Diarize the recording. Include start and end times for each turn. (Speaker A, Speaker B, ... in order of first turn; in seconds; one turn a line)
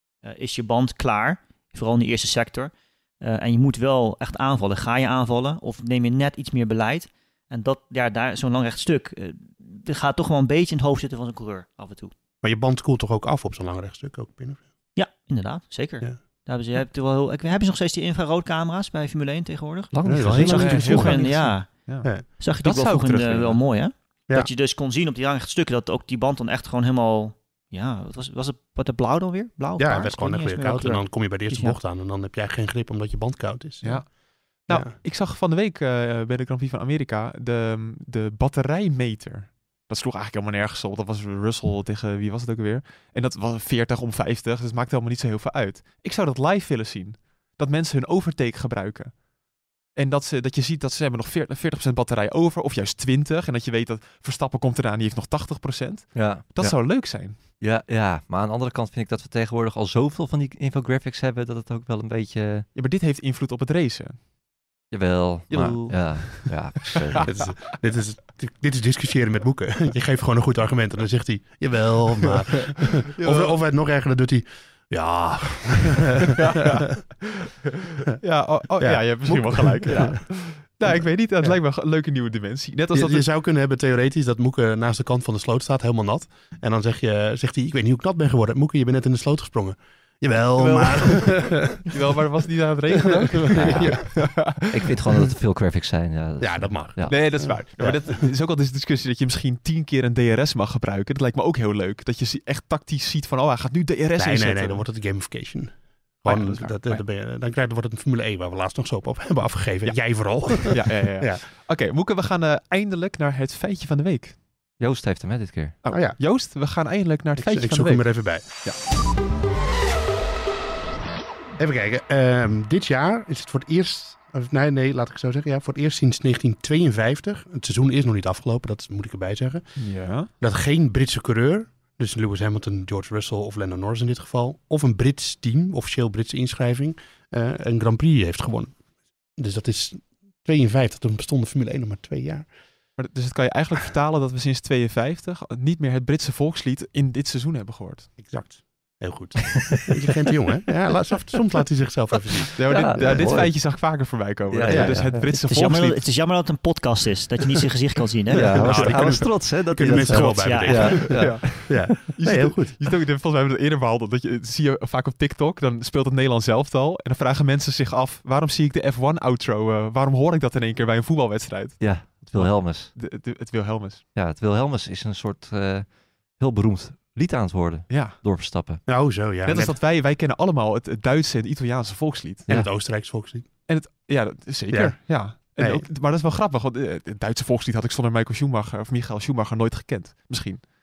Speaker A: 0.2-12.1
Speaker B: 12.4-14.7
Speaker A: 14.9-31.8
Speaker C: 19.9-20.9
Speaker B: 20.1-22.3
Speaker D: 20.4-23.7
Speaker B: 29.8-35.0
Speaker D: 33.8-49.2
Speaker D: 49.9-57.4
Speaker C: 56.1-62.7
Speaker D: 62.8-64.2
Speaker C: 64.9-67.3
Speaker D: 65.5-67.5
Speaker A: 65.5-65.9
Speaker B: 67.2-77.2
Speaker D: 73.1-73.6
Speaker D: 76.4-83.3
Speaker B: 78.8-81.6
Speaker B: 82.9-91.8
Speaker D: 90.6-94.9
Speaker B: 93.1-94.2
Speaker C: 93.6-93.9
Speaker C: 94.7-97.2
Speaker B: 96.4-98.3
Speaker D: 97.1-104.9
Speaker B: 104.2-111.5
Speaker D: 106.2-107.0
Speaker D: 109.8-114.4
Speaker C: 114.8-115.8
Speaker D: 115.8-118.8
Speaker B: 115.9-116.4
Speaker B: 117.4-118.5
Speaker B: 121.6-142.6
Speaker D: 129.8-130.3
Speaker D: 143.0-148.2
Speaker B: 148.2-153.5
Speaker D: 152.5-156.2
Speaker C: 152.6-155.2
Speaker B: 154.7-155.3
Speaker A: 155.3-158.9
Speaker B: 158.3-162.8
Speaker C: 158.3-162.0
Speaker D: 159.9-174.0
Speaker A: 160.4-161.0
Speaker C: 171.8-173.0
Speaker C: 174.2-178.8
Speaker D: 177.9-178.2
Speaker B: 178.9-179.8
Speaker D: 179.4-183.1
Speaker B: 182.5-183.8
Speaker D: 183.7-190.7
Speaker B: 184.7-185.9